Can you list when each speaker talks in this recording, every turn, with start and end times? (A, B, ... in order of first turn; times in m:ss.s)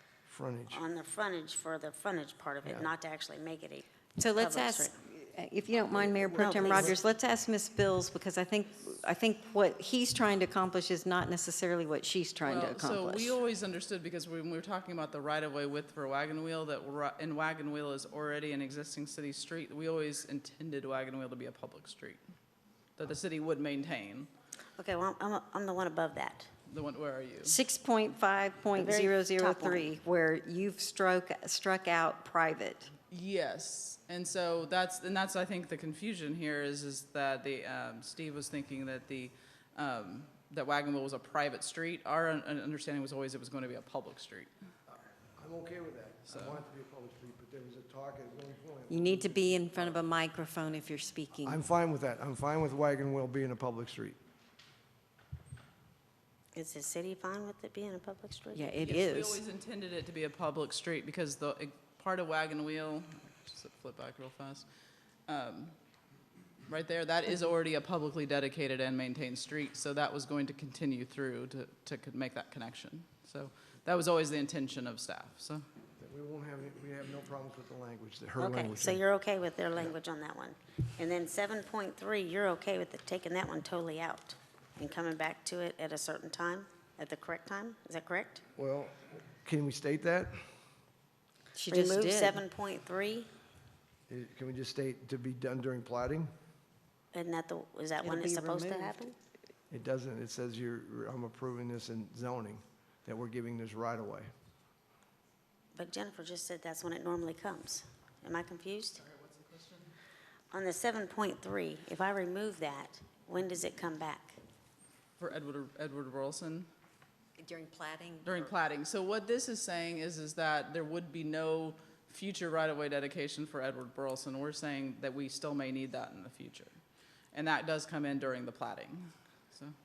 0:00.3-0:00.8 A
0:00.7-0:04.9 B
0:04.2-0:13.3 C
0:05.9-0:06.9 A
0:06.3-0:07.0 B
0:12.4-0:22.2 D
0:23.0-0:24.3 D
0:24.8-0:26.5 B
0:26.7-0:27.6 D
0:27.4-0:32.9 C
0:28.8-0:29.9 B
0:33.1-0:44.5 D
0:44.9-0:50.0 A
0:46.3-0:46.6 D
0:48.9-0:51.6 C
0:51.4-0:54.2 A
0:56.5-0:58.7 B
0:58.5-0:59.4 C
0:58.8-1:04.6 D
1:05.3-1:05.7 D
1:06.7-1:15.6 D
1:16.0-1:19.0 A
1:18.4-1:28.4 B
1:28.6-1:30.4 A
1:31.6-1:32.4 C
1:31.6-1:33.3 B
1:34.1-1:36.3 A
1:37.1-1:39.1 B
1:38.0-1:39.1 C
1:39.7-1:44.3 A
1:45.7-1:49.0 B
1:49.0-1:49.9 D
1:50.5-1:54.4 B
1:55.2-1:56.7 D
1:57.4-1:58.5 C
1:58.2-2:06.7 D
2:07.3-2:09.7 D